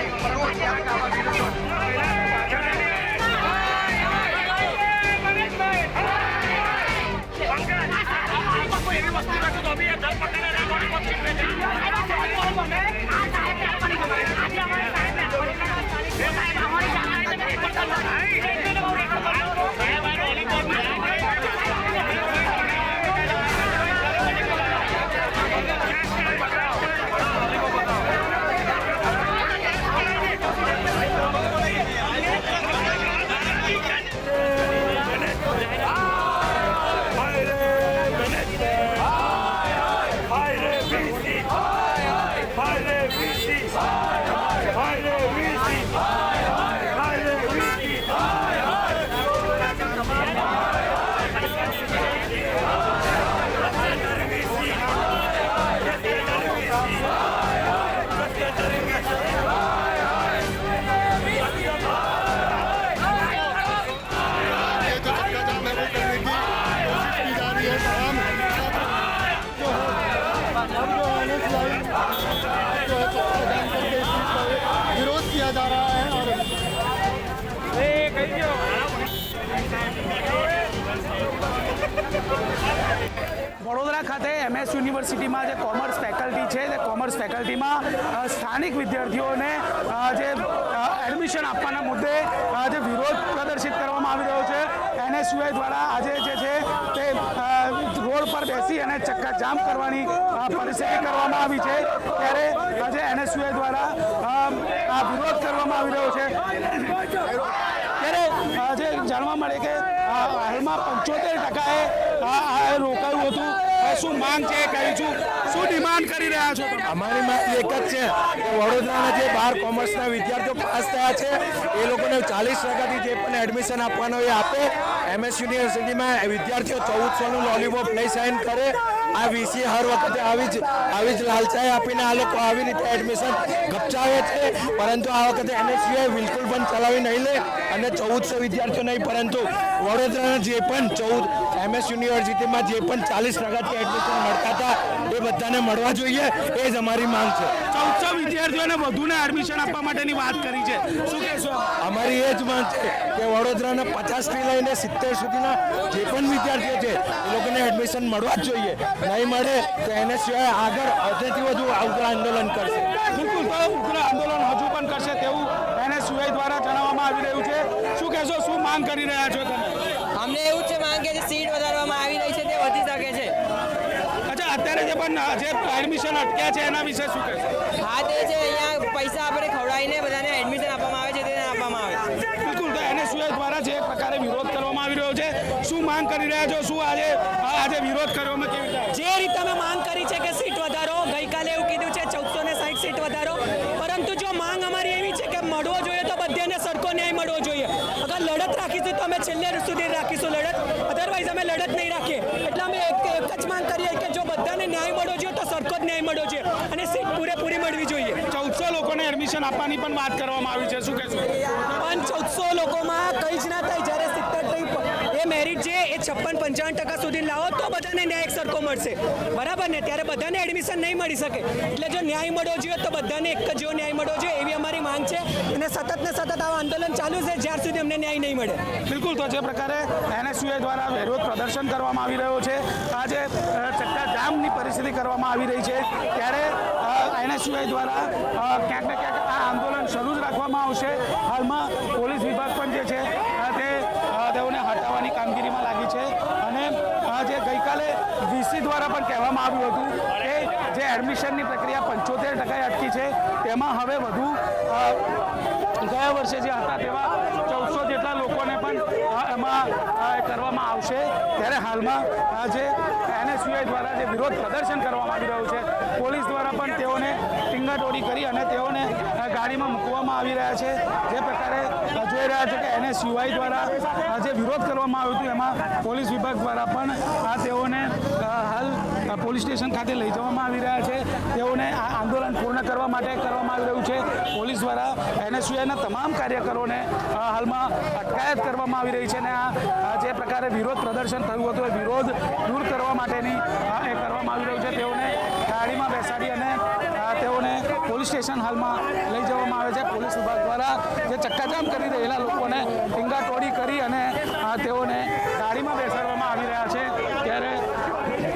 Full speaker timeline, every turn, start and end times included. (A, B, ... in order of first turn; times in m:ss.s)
0:00.5-0:00.9 A
0:37.3-0:38.7 B
0:40.4-0:41.3 B
0:42.6-0:43.5 B
0:44.9-0:45.7 B
0:47.1-0:47.8 B
1:05.4-1:06.3 C
1:07.3-1:08.2 C
1:11.3-1:11.6 C
1:13.3-1:14.1 C
1:15.0-1:16.2 C
1:23.6-1:47.0 D
1:48.0-1:56.9 D
1:56.9-2:27.6 B
2:27.7-2:31.7 D
2:31.8-2:42.9 B
2:43.1-2:49.8 D
2:50.2-2:53.3 C
2:54.3-2:57.6 D
2:57.8-3:02.0 C
3:02.4-3:09.0 D
3:08.9-3:28.2 A
3:28.2-3:31.3 D
3:31.6-3:48.6 A
3:48.9-4:15.1 D
4:15.8-5:07.6 D